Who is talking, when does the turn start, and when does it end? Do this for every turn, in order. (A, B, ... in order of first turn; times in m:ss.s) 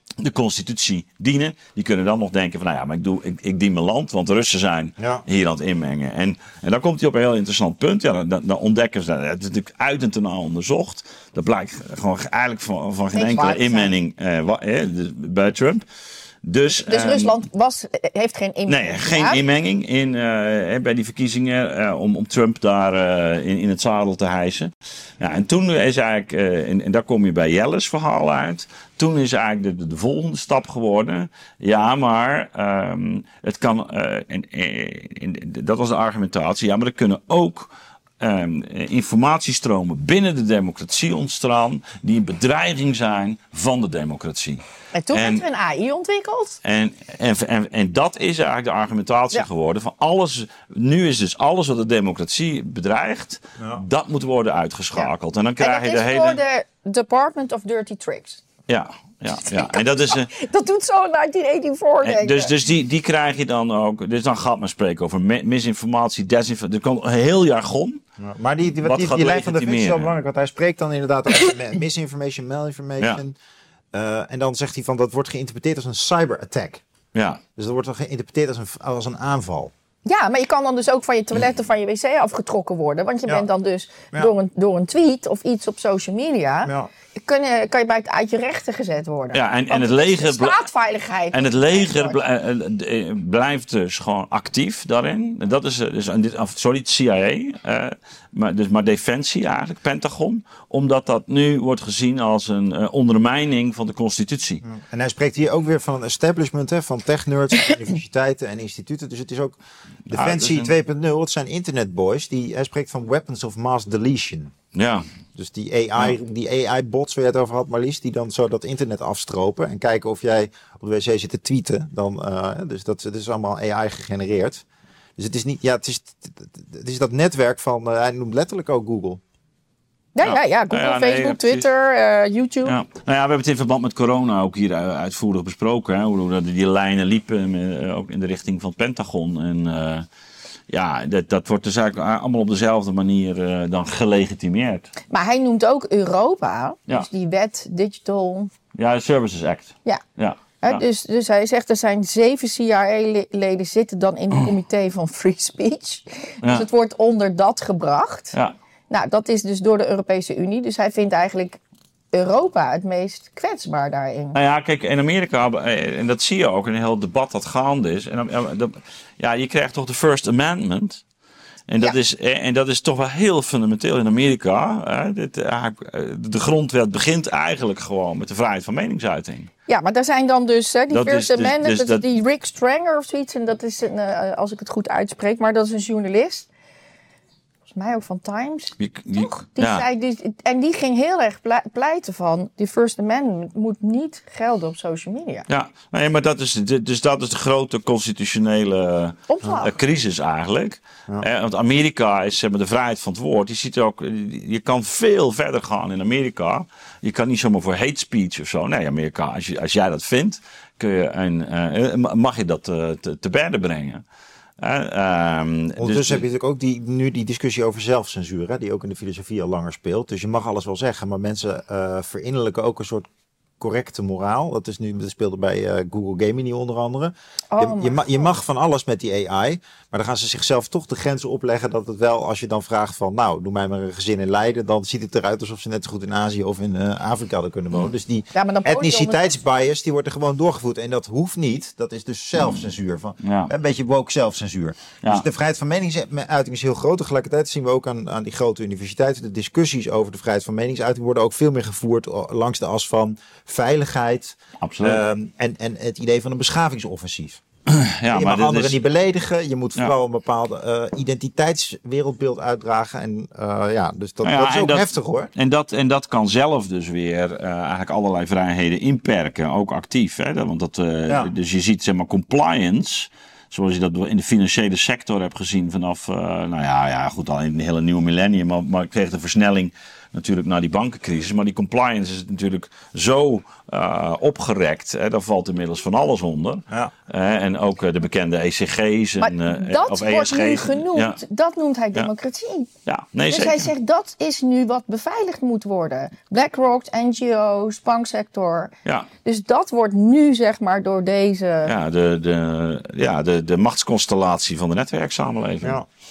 0:00.2-0:15.8 A
0:05.0-0:05.2 B
0:13.1-0:13.9 C
0:16.4-0:17.4 A
0:16.8-0:19.4 C
0:18.7-0:45.4 A
0:44.9-0:46.6 C
0:46.6-0:56.4 A
0:55.6-0:58.4 C
0:58.7-1:00.3 A
0:59.5-1:02.5 C
1:02.0-1:08.0 A
1:08.2-1:13.4 B
1:08.8-1:10.1 A
1:13.9-1:16.8 B
1:17.1-1:17.4 A
1:17.6-1:19.7 B
1:20.0-1:26.7 C
1:27.2-1:32.2 C
1:29.3-1:30.6 A
1:31.3-1:44.6 A
1:44.6-1:49.6 B
1:50.1-1:50.7 A
1:50.1-1:54.5 B
1:54.7-1:55.0 A
1:55.4-2:04.6 B
2:05.2-2:09.2 B
2:10.1-2:12.7 C
2:10.2-2:11.6 A
2:12.6-2:20.1 A
2:20.7-2:24.9 A
2:25.1-2:28.5 C
2:28.8-2:30.8 A
2:30.6-2:38.3 C
2:38.9-2:41.6 C
2:42.1-2:44.3 C
2:44.3-2:51.0 A
2:51.7-2:59.5 A
2:59.7-3:06.5 C
3:00.9-3:02.0 A
3:07.7-3:15.4 C
3:08.8-3:09.8 A
3:15.5-3:34.0 A
3:19.3-3:19.7 C
3:34.6-3:36.2 A
3:35.8-3:43.0 B
3:43.6-4:17.4 B
3:47.5-3:48.3 C
3:58.3-3:59.3 C
4:02.4-4:02.6 A
4:03.2-4:03.5 A
4:14.6-4:15.0 A
4:17.7-4:18.8 A
4:18.1-4:25.3 B
4:24.2-4:51.2 A
4:49.2-4:52.7 C
4:52.8-4:53.7 A
4:53.3-4:58.7 C
4:59.2-5:01.7 C
5:01.6-5:05.8 A